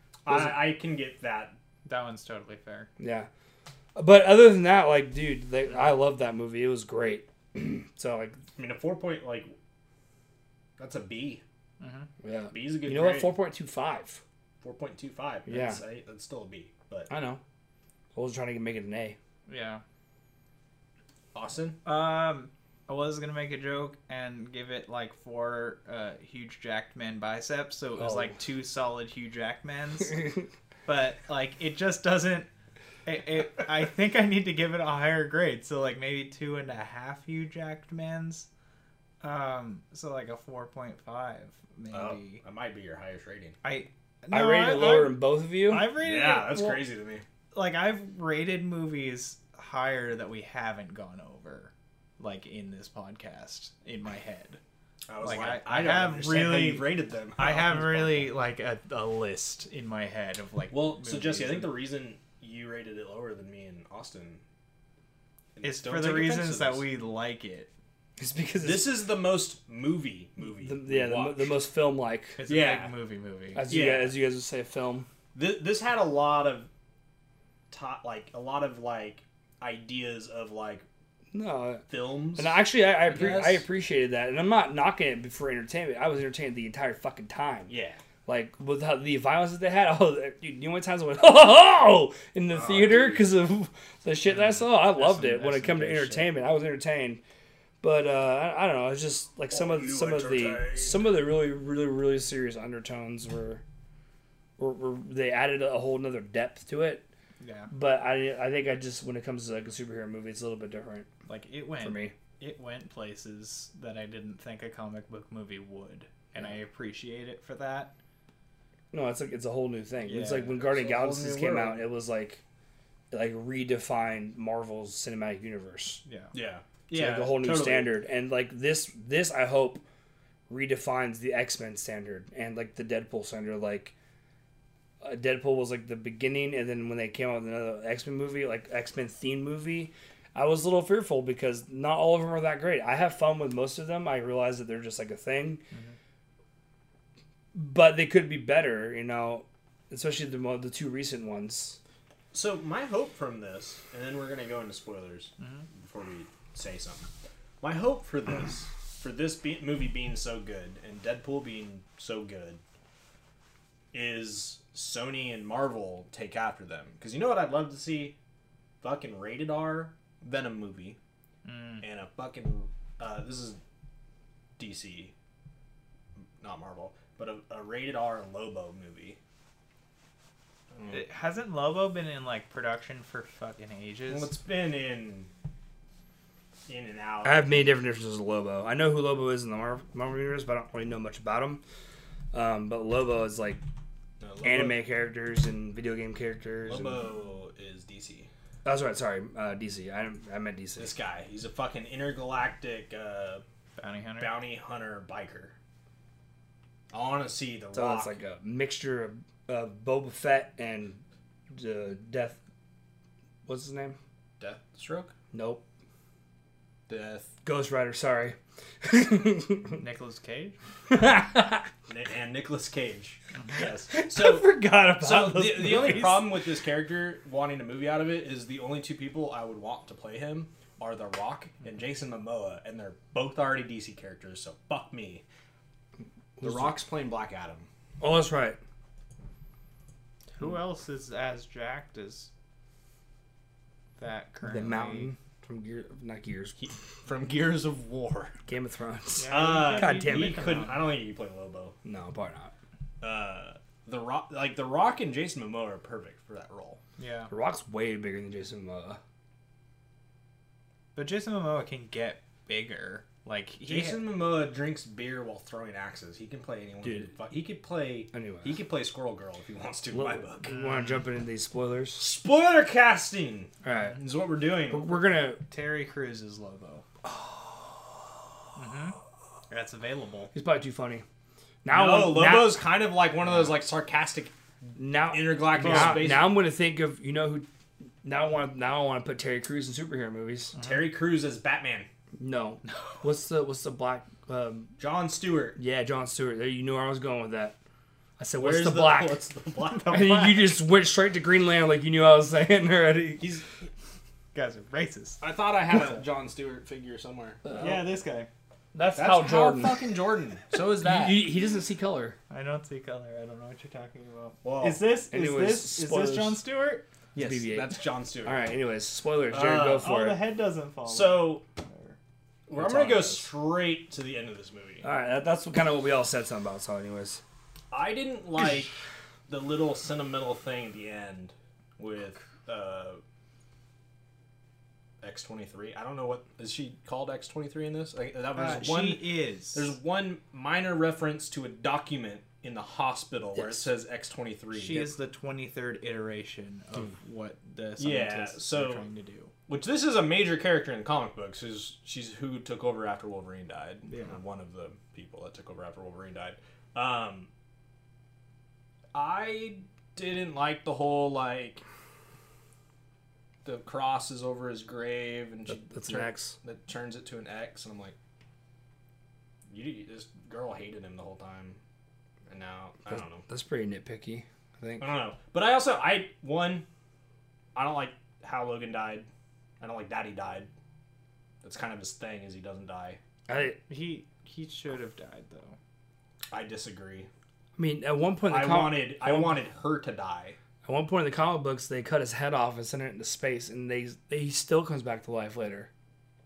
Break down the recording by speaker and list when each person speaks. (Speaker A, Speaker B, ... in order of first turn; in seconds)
Speaker A: 0.2-1.6, 8.6-9.5, 10.8-11.4, 12.5-13.3, 14.6-17.1, 21.3-21.8, 41.9-43.6, 45.9-47.2, 55.1-58.3, 60.7-64.4, 65.6-66.9, 68.6-71.6, 72.5-72.9, 73.7-74.2, 75.3-76.7, 77.7-80.8, 81.9-83.6, 87.7-88.0, 92.5-93.3, 99.5-101.1, 120.6-121.8, 126.3-127.9, 152.3-157.1, 157.6-162.6, 163.9-168.2, 168.8-171.0, 171.8-173.6, 174.6-175.1, 176.4-179.2, 180.7-181.0, 184.1-185.3, 186.7-187.6, 194.2-194.8, 196.7-198.3, 200.8-203.4, 204.2-205.6, 206.9-208.2, 214.4-215.1, 216.9-217.3, 221.9-235.2, 236.4-237.7, 246.6-248.3, 249.3-251.8, 253.0-256.8, 263.6-270.5, 272.0-275.0, 281.7-284.3, 285.1-286.3, 290.6-291.9, 294.8-295.6, 298.4-300.3, 303.2-303.5, 305.2-307.8, 308.9-311.3, 314.4-314.8, 317.2-318.5, 319.3-319.9, 320.9-321.4, 322.5-324.9, 327.7-328.7, 329.3-333.0, 335.0-344.9, 347.8-348.9, 349.5-357.3, 358.9-361.6, 363.4-367.9, 369.5-371.6, 372.3-373.2, 374.8-376.7, 377.6-379.1, 379.6-380.5, 381.4-383.0, 386.3-387.1, 388.3-390.4
Speaker B: 0.3-0.6, 3.0-3.3, 4.0-8.4, 12.2-14.2, 15.5-15.8, 17.1-17.4, 18.1-19.2, 28.0-28.4, 44.3-45.9, 68.2-68.9, 70.6-72.4, 73.5-75.1, 81.3-87.7, 88.3-97.2, 97.8-103.6, 104.6-107.0, 107.7-111.1, 111.8-112.1, 118.9-122.4, 123.1-126.0, 126.9-129.8, 130.5-133.9, 135.0-145.6, 147.5-151.8, 187.2-191.6, 192.3-193.6, 194.4-197.0, 198.7-200.9, 207.7-212.4, 213.5-214.0, 215.3-215.6, 217.4-219.8, 220.9-221.7, 223.6-226.2, 236.4-236.8, 238.0-238.6, 244.4-246.6, 248.5-250.7, 251.8-252.5, 257.3-259.0, 266.8-267.1, 268.1-268.6, 269.9-272.1, 273.6-274.0, 274.7-275.4, 280.3-281.1, 281.6-282.6, 284.8-287.5, 288.0-290.6, 292.2-294.7, 295.6-297.6, 298.2-299.2, 299.9-303.4, 307.5-307.7, 308.7-309.9, 310.8-312.2, 315.1-316.4, 317.1-320.2, 322.6-323.3, 324.8-327.2, 343.4-343.6, 365.5-366.4, 372.9-374.9, 383.3-383.6, 387.6-389.4, 390.6-395.7
Speaker C: 1.9-2.9, 11.8-12.1, 19.5-19.8, 21.9-32.5, 33.0-38.5, 39.2-42.4, 43.6-46.9, 47.5-54.6, 55.2-61.7, 65.6-67.7, 72.4-73.6, 94.2-96.3, 107.4-107.7, 111.3-117.9, 120.0-120.6, 126.1-126.3, 155.4-155.7, 171.4-171.8, 180.9-184.3, 203.8-204.4, 219.8-220.6, 225.7-226.2, 240.3-242.3, 244.0-245.1, 249.2-250.9, 257.0-257.3, 260.9-264.1, 270.5-271.0, 275.5-276.9, 278.6-279.0, 279.5-280.3, 285.6-286.1, 304.3-305.2, 307.6-308.3, 312.3-316.9, 319.6-322.0, 338.4-339.8, 344.5-349.3, 353.9-354.2, 383.7-385.6